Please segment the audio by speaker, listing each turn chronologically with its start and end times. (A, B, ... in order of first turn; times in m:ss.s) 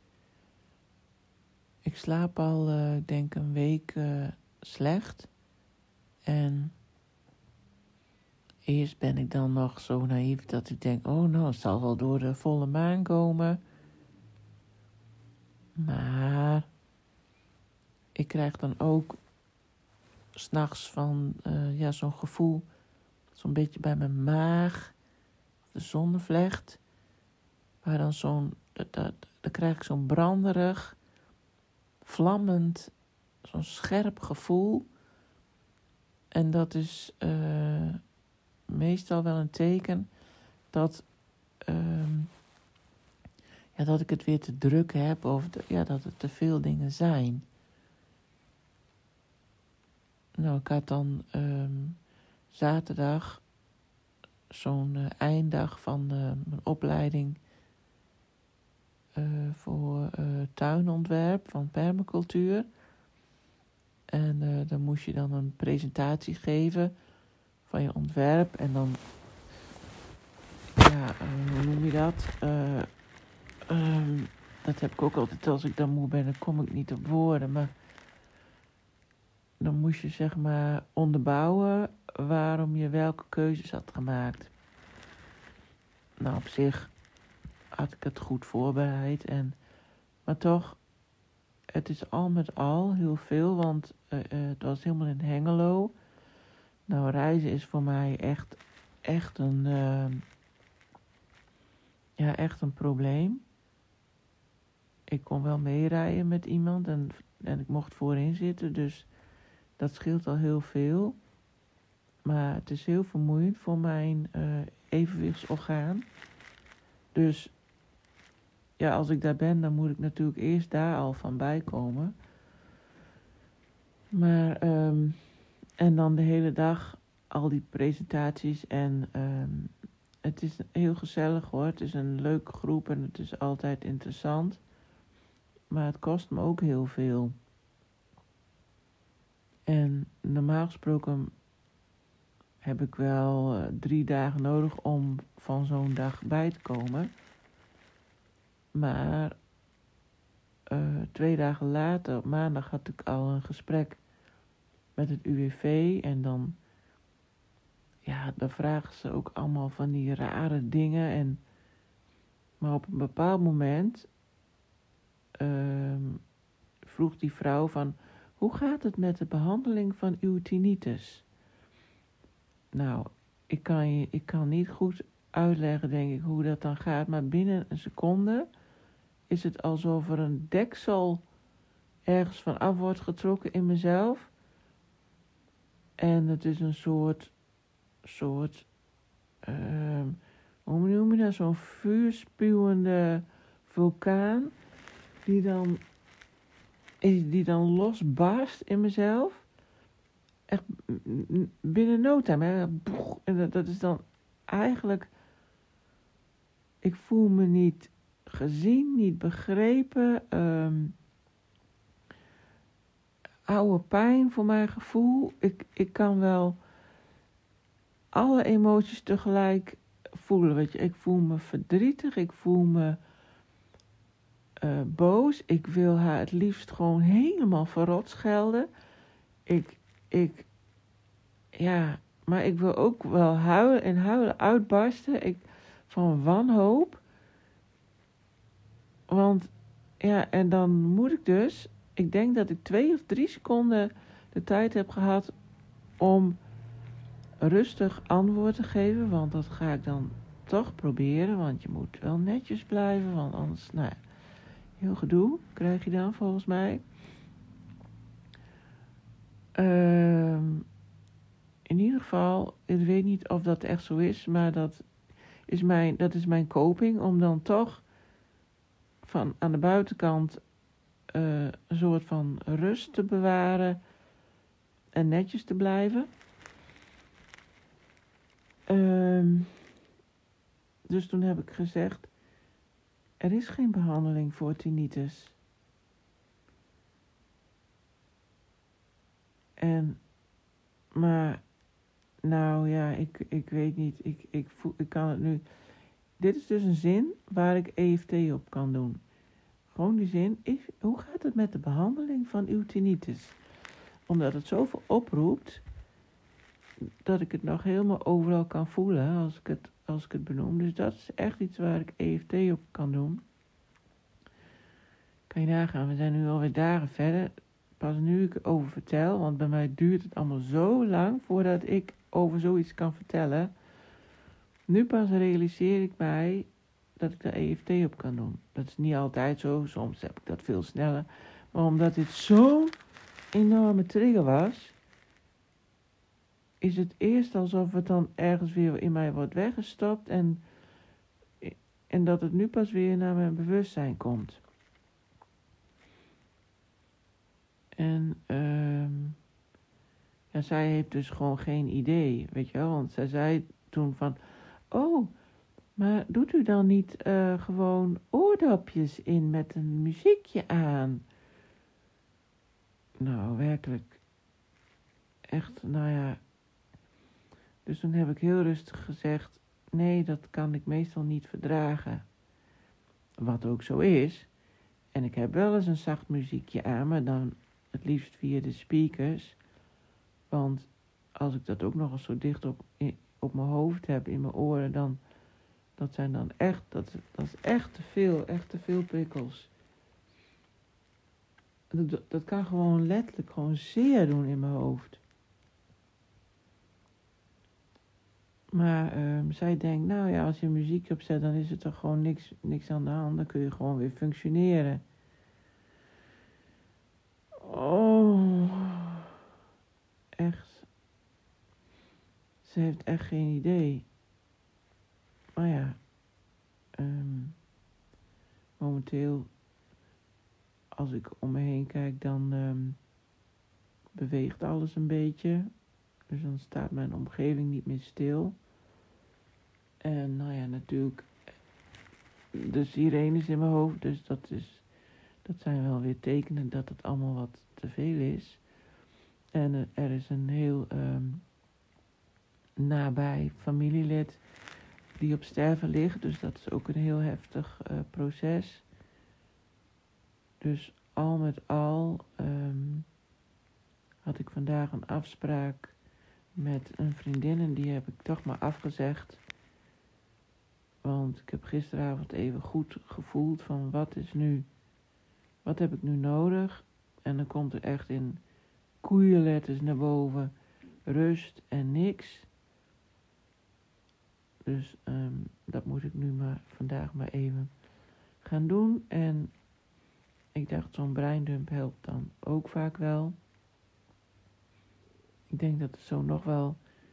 0:01.8-0:05.3 A
0:06.2-0:06.7 A
0:08.6-0:13.6 A
0:15.8-0:16.7 A
0:18.2-0:19.2 A
0:20.3-0:22.7 A
0:23.3-0:25.0 A
0:25.7-0:26.8 A
0:27.8-0:31.0 A
0:32.0-0:34.9 A
0:36.3-0:38.0 A
0:38.7-0:40.1 A
0:40.7-0:41.1 A
0:41.6-0:42.3 A
0:43.7-0:47.5 A
0:50.4-0:53.4 A
0:54.5-0:57.4 A
0:59.1-1:02.7 A
1:04.1-1:06.9 A
1:07.6-1:09.0 A
1:10.7-1:12.9 A
1:13.7-1:17.7 A
1:19.6-1:24.5 A
1:26.2-1:26.9 A
1:27.7-1:29.6 A
1:30.2-1:30.8 A
1:31.7-1:35.9 A
1:36.9-1:40.2 A
1:42.2-1:43.4 A
1:45.1-1:49.1 A
1:49.8-1:51.2 A
1:52.2-1:56.1 A
1:57.1-1:57.5 A
1:58.8-2:02.1 A
2:04.1-2:05.2 A
2:05.8-2:14.6 A
2:15.7-2:17.4 A
2:19.7-2:21.3 A
2:22.6-2:27.1 A
2:28.7-2:29.4 A
2:30.7-2:34.0 A
2:35.0-2:36.6 A
2:38.0-2:41.4 A
2:42.6-2:44.1 A
2:45.4-2:46.2 A
2:46.8-2:51.2 A
2:52.7-2:58.5 A
2:59.3-3:01.2 A
3:02.0-3:04.3 A
3:06.0-3:07.3 A
3:08.0-3:08.7 A
3:09.4-3:14.5 A
3:15.2-3:15.8 A
3:17.0-3:19.5 A
3:20.5-3:25.1 A
3:26.8-3:30.9 A
3:33.5-3:36.6 A
3:38.1-3:43.0 A
3:44.6-3:48.7 A
3:49.4-3:50.5 A
3:51.5-3:57.0 A
3:59.1-4:05.3 A
4:06.0-4:06.4 A
4:07.4-4:14.0 A
4:14.8-4:16.8 A
4:19.6-4:20.6 A
4:21.6-4:24.8 A
4:25.5-4:27.8 A
4:29.0-4:30.4 A
4:31.1-4:33.8 A
4:34.9-4:36.1 A
4:38.7-4:39.6 A
4:40.9-4:42.1 A
4:43.2-4:45.4 A
4:49.6-4:50.0 A
4:50.9-4:51.4 A
4:52.2-4:55.4 A
4:56.2-4:59.0 A
4:59.7-5:03.4 A
5:04.1-5:05.6 A
5:06.8-5:13.2 A
5:15.3-5:23.5 A
5:24.7-5:32.8 A
5:33.3-5:34.8 A
5:36.6-5:40.4 A
5:41.4-5:44.4 A
5:47.8-5:49.2 A
5:50.3-5:54.2 A
5:54.7-5:55.1 A
5:55.8-6:01.0 A
6:03.0-6:04.0 A
6:05.3-6:06.2 A
6:07.6-6:12.0 A
6:13.2-6:14.3 A
6:14.9-6:19.4 A
6:20.3-6:25.0 A
6:25.8-6:29.5 A
6:31.7-6:35.0 A
6:38.5-6:44.8 A
6:47.4-6:49.0 A
6:50.2-6:50.7 A
6:52.4-6:53.8 A
6:55.4-6:55.8 A
6:56.8-6:57.4 A
6:58.6-6:59.3 A
7:00.7-7:02.8 A
7:03.9-7:05.5 A
7:06.1-7:08.4 A
7:09.8-7:11.1 A
7:12.3-7:14.6 A
7:15.2-7:18.4 A
7:19.3-7:21.2 A
7:22.6-7:24.2 A
7:25.0-7:28.6 A
7:30.4-7:32.9 A
7:34.0-7:35.8 A
7:36.4-7:39.2 A
7:40.8-7:44.4 A
7:45.4-7:48.2 A
7:48.8-7:50.3 A
7:50.8-7:52.3 A
7:54.4-7:57.5 A
7:58.2-7:59.3 A
8:00.3-8:03.2 A
8:05.3-8:06.6 A